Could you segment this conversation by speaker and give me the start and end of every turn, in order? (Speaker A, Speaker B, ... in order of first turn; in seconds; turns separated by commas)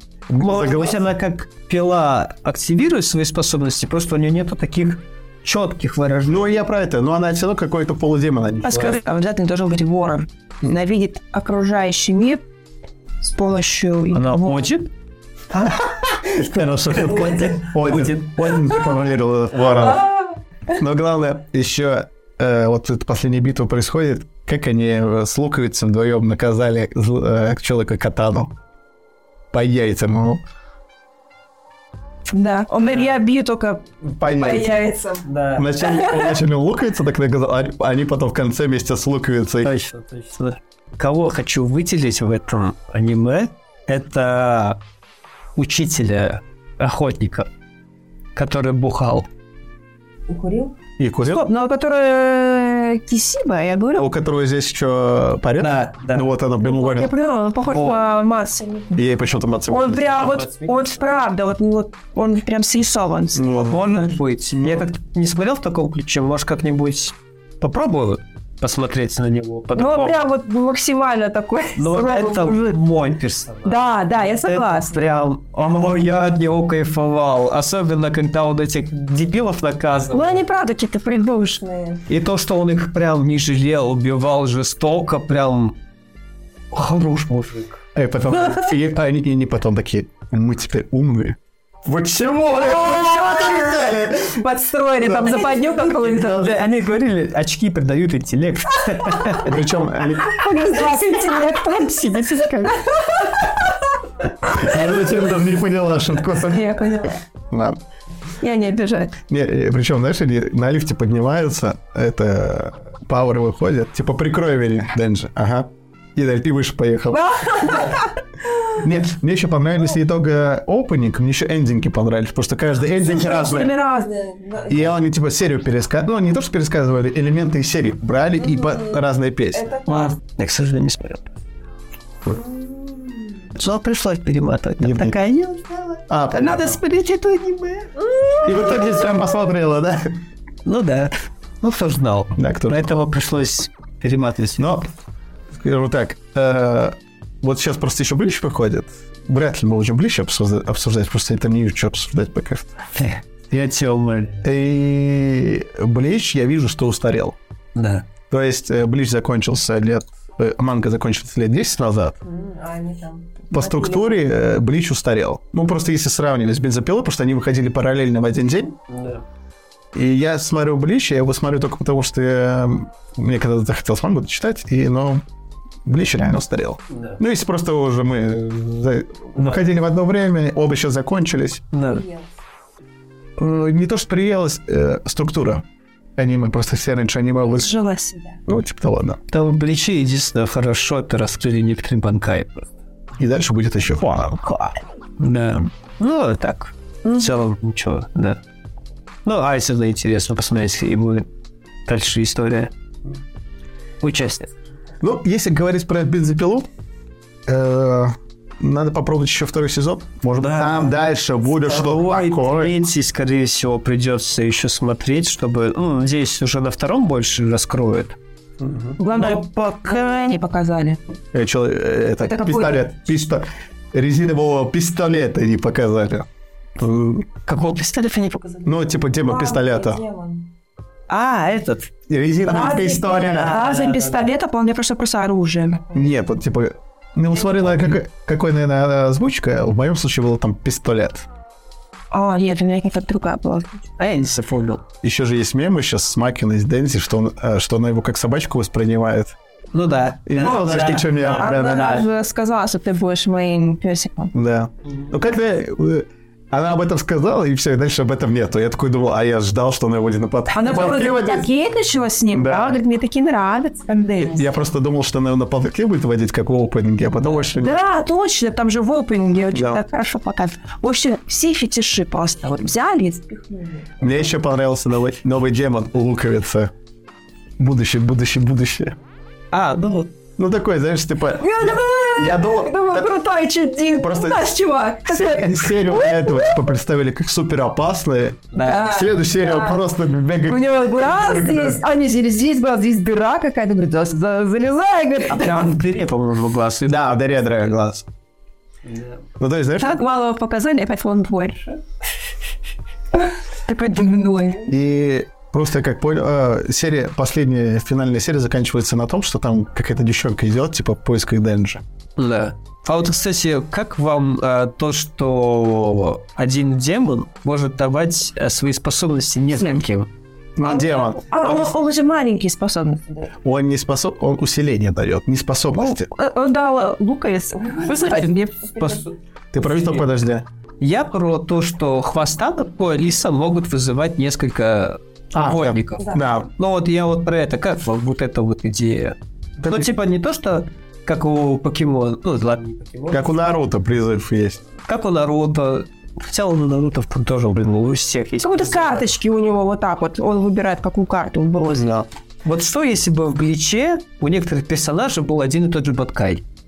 Speaker A: 0.3-1.0, Speaker B: 0.4-6.5, Speaker A: 6.2-8.9, Speaker C: 8.6-12.4, Speaker C: 13.2-14.7, Speaker B: 14.1-14.9, Speaker A: 15.6-20.1, Speaker B: 16.3-18.6, Speaker C: 19.7-20.4, Speaker A: 20.7-28.5, Speaker A: 29.5-30.4, Speaker C: 32.3-36.4, Speaker A: 34.0-34.9, Speaker B: 35.2-35.7, Speaker A: 35.5-39.7, Speaker B: 39.6-44.8, Speaker B: 45.5-47.5, Speaker B: 48.3-49.3, Speaker C: 50.3-50.7, Speaker A: 51.0-51.5, Speaker C: 51.3-54.1, Speaker A: 54.0-57.1, Speaker B: 55.6-56.3, Speaker C: 56.6-59.1, Speaker B: 57.7-58.0, Speaker A: 58.9-60.3, Speaker C: 59.7-63.5, Speaker B: 60.2-60.7, Speaker A: 63.3-64.8, Speaker B: 63.7-70.2, Speaker C: 69.7-72.8, Speaker B: 71.8-73.8, Speaker C: 73.6-75.0, Speaker B: 74.3-80.4, Speaker C: 80.1-82.0, Speaker B: 82.1-85.8, Speaker B: 86.7-87.8, Speaker A: 87.9-94.4, Speaker C: 92.6-96.6, Speaker B: 96.2-99.5, Speaker A: 99.4-100.4, Speaker C: 100.2-103.5, Speaker B: 101.4-102.7, Speaker A: 104.5-106.8, Speaker C: 106.4-107.2, Speaker A: 107.5-107.8, Speaker C: 108.4-109.2, Speaker A: 109.3-117.9, Speaker C: 117.1-118.8, Speaker A: 118.7-123.7, Speaker C: 123.0-124.9, Speaker A: 124.7-129.8, Speaker C: 128.4-129.0, Speaker C: 129.5-130.1, Speaker B: 129.8-131.3, Speaker C: 132.3-133.4, Speaker B: 133.5-138.6, Speaker A: 134.8-135.1, Speaker A: 136.1-136.8, Speaker A: 138.4-140.1, Speaker B: 140.6-144.7, Speaker A: 142.3-142.9, Speaker A: 144.6-144.9, Speaker A: 145.5-152.7, Speaker B: 152.9-154.4, Speaker A: 154.4-157.4, Speaker B: 157.7-158.0, Speaker A: 158.3-162.2, Speaker C: 162.2-164.2, Speaker A: 163.5-168.8, Speaker B: 168.9-169.2, Speaker A: 169.9-175.2, Speaker A: 175.8-181.6, Speaker B: 176.9-177.2, Speaker B: 179.4-179.6, Speaker B: 181.7-182.1, Speaker C: 181.9-182.3, Speaker A: 183.4-185.6, Speaker A: 186.2-187.7, Speaker C: 187.5-188.4, Speaker A: 188.5-189.2, Speaker B: 189.3-192.7, Speaker A: 193.2-194.4, Speaker B: 195.2-198.4, Speaker C: 197.0-197.4, Speaker B: 199.2-201.3, Speaker B: 201.9-202.7, Speaker B: 204.0-204.5, Speaker A: 205.0-206.7, Speaker A: 207.5-212.7, Speaker B: 210.4-210.9, Speaker B: 211.6-218.2, Speaker A: 218.6-218.9, Speaker C: 219.0-221.0, Speaker B: 219.1-220.2, Speaker A: 221.3-226.3, Speaker C: 222.2-222.9, Speaker A: 226.8-227.2, Speaker B: 227.4-228.7, Speaker A: 228.6-230.0, Speaker C: 229.0-230.5, Speaker B: 231.1-231.9, Speaker A: 232.1-233.6, Speaker C: 232.4-236.1, Speaker B: 233.2-234.2, Speaker A: 235.9-241.3, Speaker C: 242.1-243.9, Speaker B: 244.0-244.8, Speaker A: 245.0-249.3, Speaker B: 249.7-252.0, Speaker A: 250.2-252.0, Speaker C: 251.3-254.3, Speaker A: 254.3-261.5, Speaker B: 254.9-255.1, Speaker C: 260.5-264.6, Speaker A: 262.3-262.8, Speaker A: 264.3-267.8, Speaker C: 267.6-274.2, Speaker A: 269.5-269.8, Speaker A: 274.0-276.7, Speaker A: 277.6-279.0, Speaker B: 279.5-280.1, Speaker A: 280.4-283.1, Speaker C: 281.4-286.7, Speaker A: 284.0-284.4, Speaker A: 285.1-291.6, Speaker B: 288.5-288.9, Speaker C: 288.6-289.8, Speaker C: 290.4-295.7, Speaker B: 295.3-297.1, Speaker A: 296.9-298.1, Speaker B: 298.8-299.2, Speaker A: 299.4-299.9, Speaker C: 299.8-301.8, Speaker C: 303.1-304.7, Speaker A: 304.7-311.8, Speaker B: 312.2-320.1, Speaker A: 320.6-321.3, Speaker C: 320.6-323.3, Speaker A: 323.4-326.1, Speaker C: 325.8-329.1, Speaker B: 327.9-330.1, Speaker A: 329.5-330.4, Speaker B: 330.8-339.1, Speaker A: 335.3-336.5, Speaker C: 336.0-336.2, Speaker A: 339.6-339.9, Speaker B: 339.7-343.4, Speaker A: 343.1-344.6, Speaker B: 344.8-349.0, Speaker C: 348.4-351.9, Speaker A: 351.8-352.0, Speaker B: 352.4-356.4